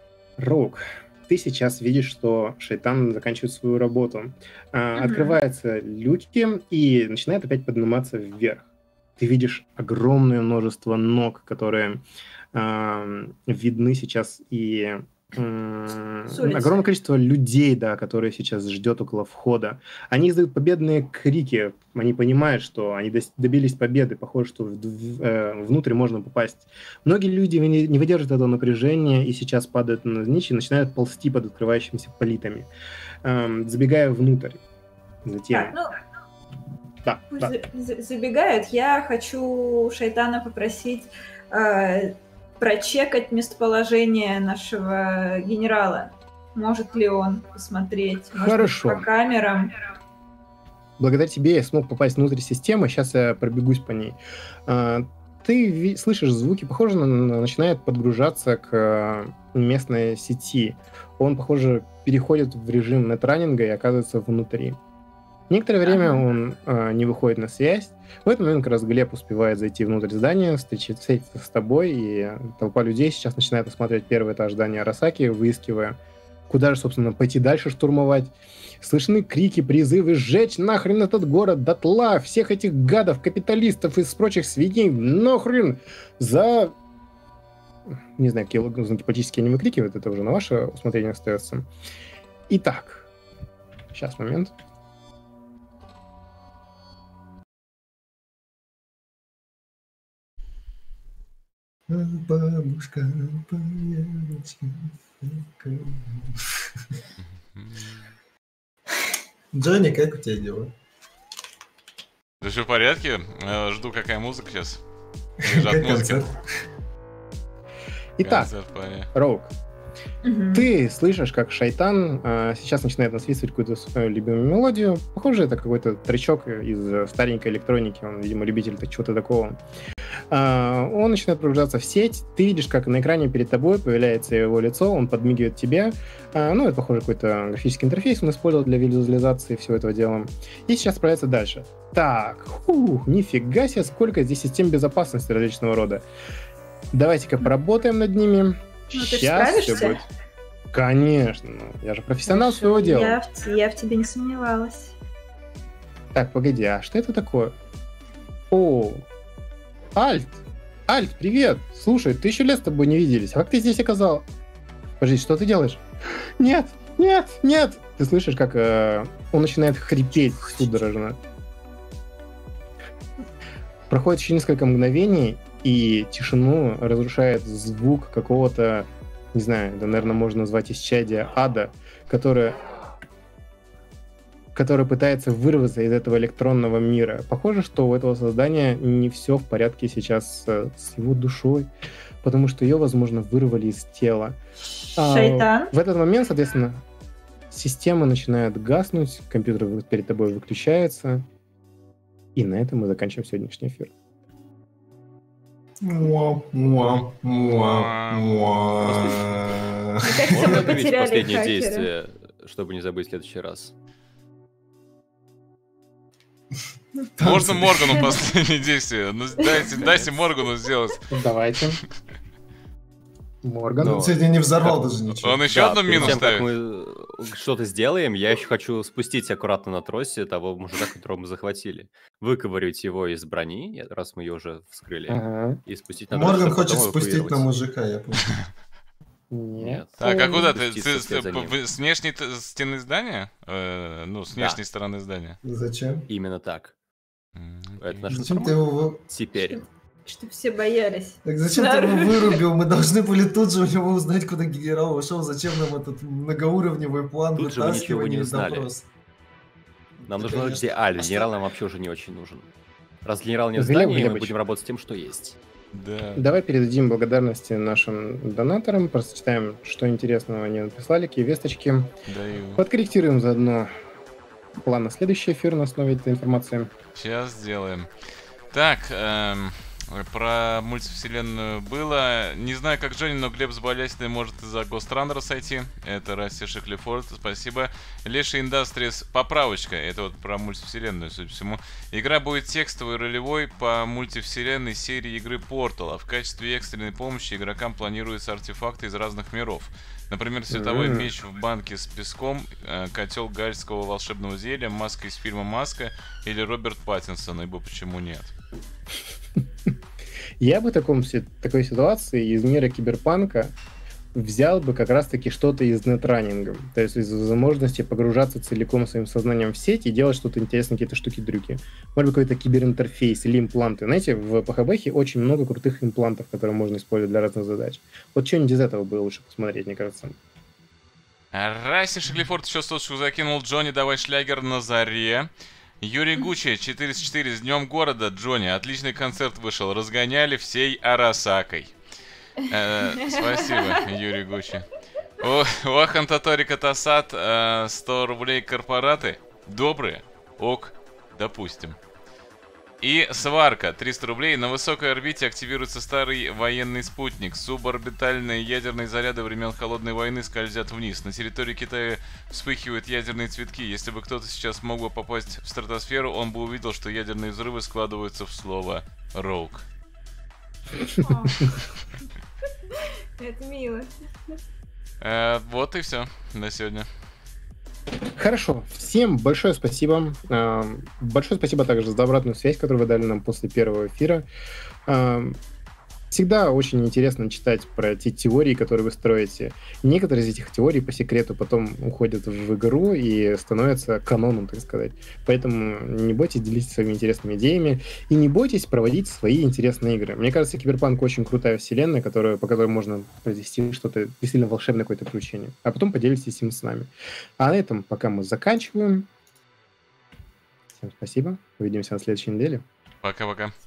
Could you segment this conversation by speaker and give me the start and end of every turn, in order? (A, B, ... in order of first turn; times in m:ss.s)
0:00.4-0:08.6 A
0:05.0-0:05.4 B
0:09.2-0:32.7 A
0:16.3-0:16.8 B
0:33.2-0:34.6 A
0:35.2-0:35.8 A
0:35.5-0:35.9 B
0:37.0-0:37.5 A
0:37.3-0:49.8 B
0:48.3-0:49.1 A
0:51.0-1:04.8 A
1:05.5-1:16.0 A
1:05.8-1:06.2 B
1:16.5-1:26.7 A
1:28.2-1:31.7 A
1:32.5-1:33.1 A
1:33.9-1:34.5 A
1:41.9-1:46.7 C
1:47.5-1:48.0 D
1:49.5-1:50.7 C
1:52.4-1:54.8 D
1:55.4-1:56.2 D
1:55.4-1:56.4 C
1:58.2-1:58.5 A
1:58.2-1:59.1 D
1:59.1-1:59.5 A
2:00.2-2:00.6 B
2:00.5-2:09.6 A
2:10.3-2:26.0 A
2:26.9-2:30.0 A
2:28.9-2:30.0 B
2:30.7-2:33.2 A
2:32.2-2:34.9 B
2:36.1-2:37.5 A
2:38.5-2:39.0 A
2:39.9-2:44.2 A
2:45.0-2:45.8 A
2:46.4-2:51.2 A
2:53.9-3:02.6 A
3:04.5-3:11.7 A
3:12.2-3:14.4 A
3:15.0-3:16.8 A
3:15.0-3:15.7 B
3:17.5-3:21.2 A
3:22.3-3:23.9 A
3:25.8-3:30.6 C
3:27.3-3:29.2 D
3:28.8-3:29.5 E
3:30.0-3:31.9 B
3:30.2-3:33.7 E
3:37.2-3:38.1 C
3:37.2-3:41.0 D
3:38.0-3:38.2 B
3:41.1-3:41.8 A
3:43.4-3:44.1 A
3:43.8-3:46.2 C
3:43.8-3:44.2 E
3:45.1-3:46.5 D
3:45.5-3:57.5 E
3:55.1-3:55.6 A
3:56.1-3:58.4 C
3:59.3-3:59.8 A
3:59.6-4:01.5 E
4:00.0-4:05.4 D
4:04.3-4:04.6 E
4:05.4-4:06.1 C
4:06.1-4:06.7 E
4:07.3-4:08.2 D
4:07.8-4:09.6 E
4:08.1-4:09.0 C
4:09.4-4:12.4 B
4:11.2-4:18.8 C
4:17.3-4:18.7 E
4:20.0-4:21.3 C
4:20.1-4:22.5 E
4:23.0-4:25.4 E
4:23.5-4:24.3 A
4:25.7-4:26.2 D
4:26.1-4:31.9 A
4:32.1-4:32.6 D
4:32.5-4:33.7 A
4:34.6-4:36.7 A
4:36.9-4:37.9 D
4:38.5-5:08.3 D
5:00.5-5:01.1 A
5:10.4-5:13.5 A
5:14.1-5:30.2 A
5:31.3-5:35.3 D
5:35.8-5:41.7 D
5:42.4-5:51.8 D
5:43.0-5:43.7 B
5:52.8-6:09.6 D
6:11.0-6:11.5 B
6:12.7-6:14.4 B
6:15.0-6:16.9 D
6:18.2-6:24.2 A
6:24.9-6:25.4 A
6:26.1-6:49.1 A
6:50.8-6:52.6 A
6:53.0-6:53.5 D